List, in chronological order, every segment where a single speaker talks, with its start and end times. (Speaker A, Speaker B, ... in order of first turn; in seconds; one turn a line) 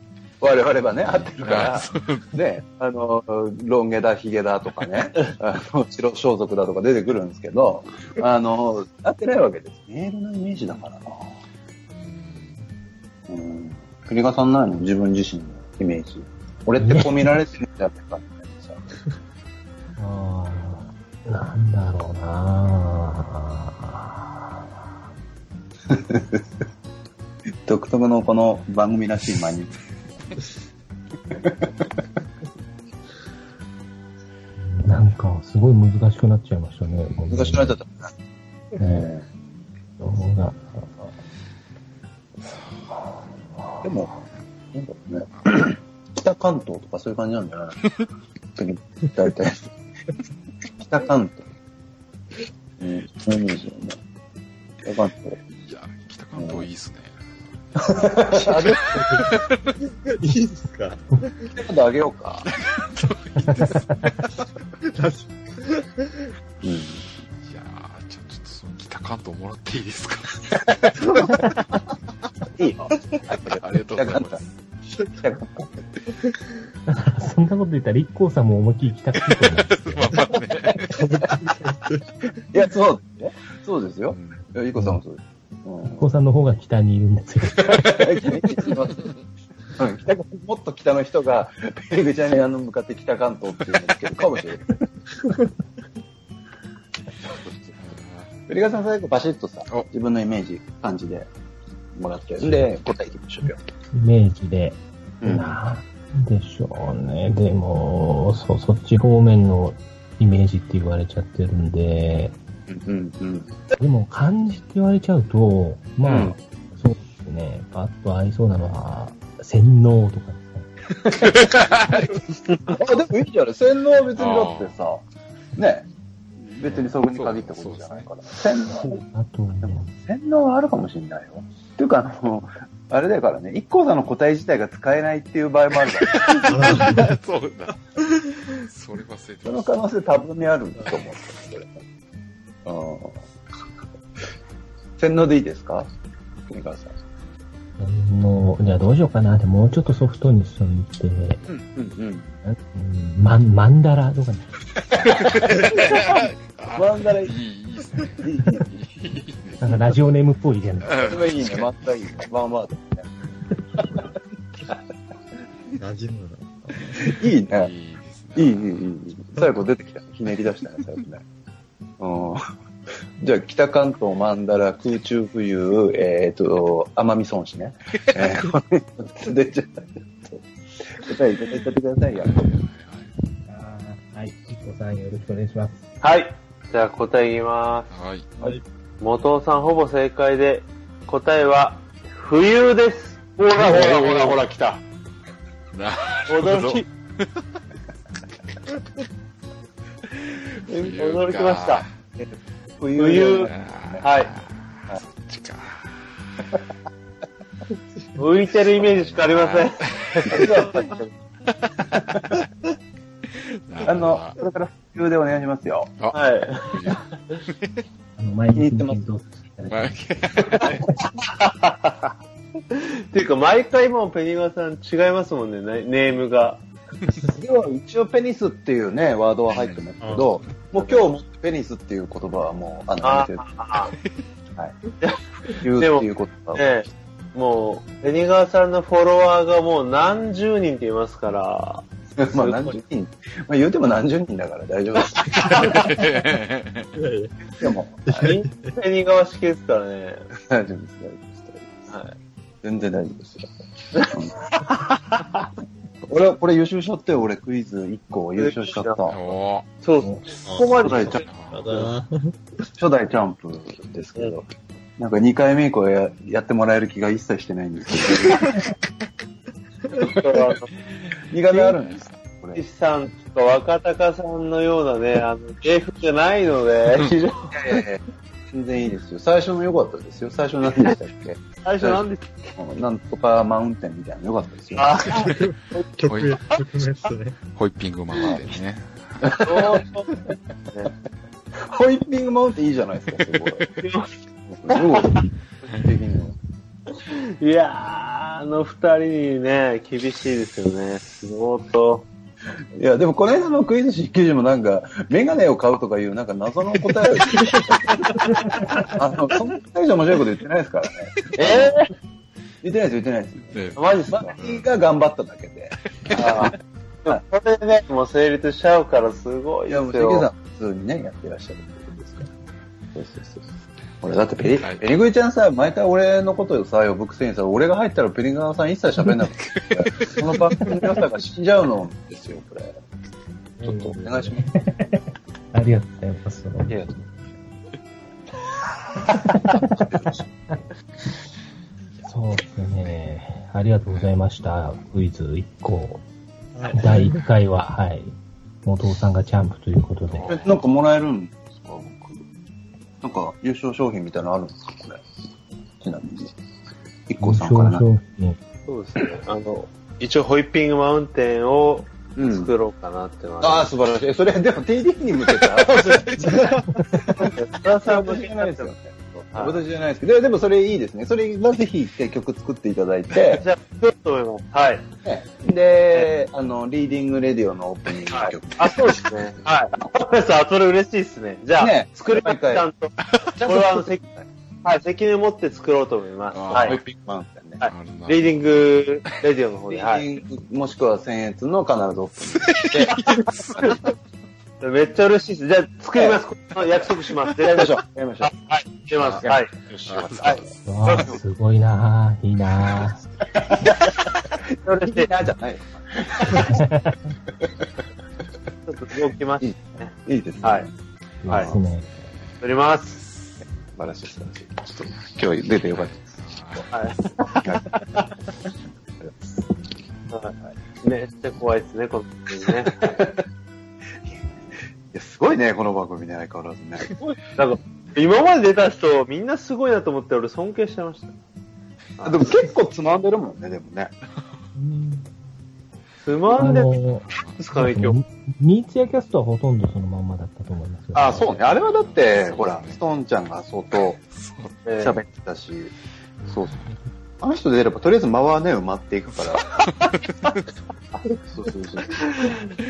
Speaker A: 0.4-11.3
Speaker B: 1.0-2.3
Speaker B: 11.9-12.6
Speaker A: 13.3-18.8
Speaker C: 16.8-17.3
Speaker C: 20.0-24.6
Speaker A: 25.9-26.4
Speaker A: 27.7-29.7
Speaker C: 34.6-37.8
Speaker B: 36.9-37.2
Speaker A: 37.3-38.1
Speaker C: 38.8-39.1
Speaker A: 38.9-39.2
Speaker C: 40.0-40.9
Speaker B: 42.4-42.8
Speaker A: 43.8-44.1
Speaker A: 44.7-47.8
Speaker A: 48.6-49.6
Speaker A: 50.8-51.5
Speaker A: 52.8-54.0
Speaker A: 54.9-55.4
Speaker B: 55.6-57.2
Speaker A: 56.4-56.7
Speaker A: 57.9-58.9
Speaker D: 58.9-59.4
Speaker B: 58.9-59.6
Speaker D: 60.1-61.0
Speaker A: 61.5-62.5
Speaker B: 62.7-63.8
Speaker D: 64.9-65.2
Speaker A: 66.6-67.0
Speaker B: 67.4-70.9
Speaker A: 71.0-71.5
Speaker A: 72.6-74.4
Speaker B: 73.5-74.5
Speaker A: 75.1-75.7
Speaker C: 76.9-80.1
Speaker B: 79.4-81.1
Speaker D: 80.9-82.0
Speaker A: 82.5-86.0
Speaker B: 84.1-84.4
Speaker C: 86.0-88.1
Speaker A: 87.7-89.0
Speaker A: 89.7-94.7
Speaker A: 97.2-97.8
Speaker B: 97.8-98.3
Speaker A: 98.5-101.3
Speaker A: 102.0-103.6
Speaker C: 103.9-112.3
Speaker A: 105.2-105.6
Speaker A: 112.7-113.6
Speaker C: 113.8-120.7
Speaker A: 116.0-116.4
Speaker A: 121.1-122.0
Speaker B: 121.4-122.1
Speaker A: 122.7-125.0
Speaker B: 124.2-124.8
Speaker A: 125.6-125.9
Speaker A: 126.4-129.0
Speaker B: 126.6-128.1
Speaker C: 129.1-129.9
Speaker A: 129.6-136.4
Speaker D: 136.5-137.2
Speaker B: 136.5-137.8
Speaker B: 138.5-139.9
Speaker A: 139.4-141.8
Speaker B: 140.8-141.5
Speaker A: 142.7-143.2
Speaker A: 145.0-145.9
Speaker A: 146.5-146.9
Speaker C: 147.8-151.4
Speaker A: 151.5-152.4
Speaker C: 152.5-154.5
Speaker A: 155.1-156.2
Speaker B: 155.3-159.8
Speaker A: 156.7-157.3
Speaker A: 158.2-158.8
Speaker C: 159.6-161.0
Speaker B: 160.8-161.7
Speaker A: 161.0-163.1
Speaker D: 165.8-167.2
Speaker A: 167.1-167.7
Speaker B: 167.4-169.0
Speaker A: 168.4-171.2
Speaker A: 172.0-172.4
Speaker A: 173.2-180.4
Speaker A: 181.0-182.5
Speaker B: 182.2-183.1
Speaker C: 183.5-185.8
Speaker E: 186.0-187.9
Speaker B: 187.9-188.3
Speaker E: 189.0-194.8
Speaker B: 195.7-197.4
Speaker E: 196.3-196.9
Speaker B: 200.7-201.9
Speaker E: 200.7-201.8
Speaker A: 202.2-204.1
Speaker E: 203.0-203.5
Speaker B: 203.4-206.1
Speaker E: 204.0-204.3
Speaker E: 208.2-211.1
Speaker B: 208.7-210.5
Speaker B: 213.5-214.4
Speaker A: 213.9-215.9
Speaker B: 216.0-217.8
Speaker E: 216.1-217.0
Speaker C: 218.2-220.1
Speaker A: 218.6-219.0
Speaker B: 219.7-220.9
Speaker E: 221.4-221.9
Speaker E: 222.7-226.6
Speaker A: 227.3-233.4
Speaker B: 229.5-230.3
Speaker D: 230.0-230.3
Speaker E: 230.8-231.1
Speaker E: 233.0-233.9
Speaker A: 235.6-236.7
Speaker E: 235.8-242.8
Speaker A: 242.2-245.8
Speaker B: 245.6-246.9
Speaker D: 246.9-247.5
Speaker A: 247.6-248.0
Speaker D: 248.1-248.7
Speaker E: 248.2-250.3
Speaker A: 250.5-251.7
Speaker E: 251.9-252.2
Speaker A: 252.6-253.5
Speaker A: 256.1-259.4
Speaker E: 258.4-259.0
Speaker B: 259.1-259.7
Speaker E: 259.8-261.9
Speaker D: 260.5-262.3
Speaker A: 260.9-261.2
Speaker B: 261.0-261.7
Speaker A: 262.8-268.5
Speaker E: 270.1-270.7
Speaker A: 271.3-272.6
Speaker B: 271.7-272.1
Speaker E: 272.6-277.5
Speaker A: 277.5-278.0
Speaker A: 278.5-282.0
Speaker E: 281.6-282.3
Speaker A: 282.6-284.9
Speaker E: 284.8-285.8
Speaker D: 285.2-287.4
Speaker B: 286.1-286.4
Speaker B: 287.4-289.4
Speaker A: 289.2-289.6
Speaker E: 289.4-290.1
Speaker A: 291.7-293.6
Speaker B: 293.3-293.7
Speaker E: 293.8-294.1
Speaker A: 294.5-296.4
Speaker E: 297.1-302.1
Speaker A: 302.8-307.6
Speaker C: 308.4-308.9
Speaker A: 308.8-311.9
Speaker E: 311.4-311.9
Speaker A: 312.6-313.6
Speaker B: 313.5-314.7
Speaker E: 313.8-314.3
Speaker A: 314.1-316.5
Speaker B: 316.0-316.5
Speaker E: 316.2-316.6
Speaker E: 317.1-320.3
Speaker A: 319.7-322.3
Speaker A: 322.9-323.4
Speaker A: 324.0-332.8
Speaker B: 324.4-324.9
Speaker B: 329.4-330.3
Speaker A: 333.6-334.5
Speaker C: 333.6-336.8
Speaker A: 336.7-337.1
Speaker C: 339.2-339.9
Speaker C: 342.0-346.0
Speaker B: 343.9-344.1
Speaker D: 346.6-347.2
Speaker C: 346.7-350.4
Speaker B: 350.1-350.7
Speaker A: 350.3-352.2
Speaker A: 353.0-355.0
Speaker A: 355.8-356.4
Speaker A: 357.1-357.9
Speaker C: 357.2-358.4
Speaker E: 358.7-363.7
Speaker A: 362.2-362.5
Speaker A: 363.4-366.4
Speaker E: 366.1-366.4
Speaker D: 366.3-366.6
Speaker A: 367.0-373.4
Speaker E: 367.2-368.7
Speaker E: 369.3-369.6
Speaker E: 373.4-374.9
Speaker A: 375.1-378.9
Speaker E: 378.1-384.0
Speaker A: 381.6-382.7
Speaker B: 383.1-383.5
Speaker A: 383.4-384.2
Speaker E: 384.6-386.8
Speaker B: 386.3-386.8
Speaker A: 386.5-387.6
Speaker E: 387.6-390.0
Speaker B: 387.6-389.1
Speaker A: 389.7-393.0
Speaker B: 392.2-393.9
Speaker E: 394.6-399.5
Speaker A: 397.4-398.3
Speaker A: 399.0-401.2
Speaker B: 399.9-400.5
Speaker C: 400.7-403.0
Speaker E: 400.9-401.1
Speaker E: 404.6-405.1
Speaker A: 404.8-406.6
Speaker C: 406.4-407.0
Speaker E: 408.7-409.9
Speaker A: 409.4-410.7
Speaker C: 411.2-411.9
Speaker E: 411.3-411.5
Speaker B: 411.5-413.4
Speaker E: 412.4-413.0
Speaker A: 413.8-415.9
Speaker B: 415.7-417.2
Speaker E: 416.7-418.1
Speaker A: 417.4-417.6
Speaker E: 420.1-423.0
Speaker A: 422.9-423.2
Speaker A: 424.9-426.9
Speaker E: 427.2-431.1
Speaker E: 432.0-432.3
Speaker A: 432.0-433.9
Speaker D: 434.6-435.1
Speaker E: 436.0-436.7
Speaker C: 436.4-437.0
Speaker B: 436.7-437.4
Speaker E: 437.4-438.0
Speaker C: 437.6-441.3
Speaker A: 440.9-444.0
Speaker B: 441.4-442.8
Speaker B: 444.1-444.6
Speaker E: 444.6-445.0
Speaker A: 444.8-445.7
Speaker A: 446.3-446.6
Speaker A: 447.2-449.4
Speaker B: 449.2-450.2
Speaker A: 451.1-451.9
Speaker E: 452.0-452.5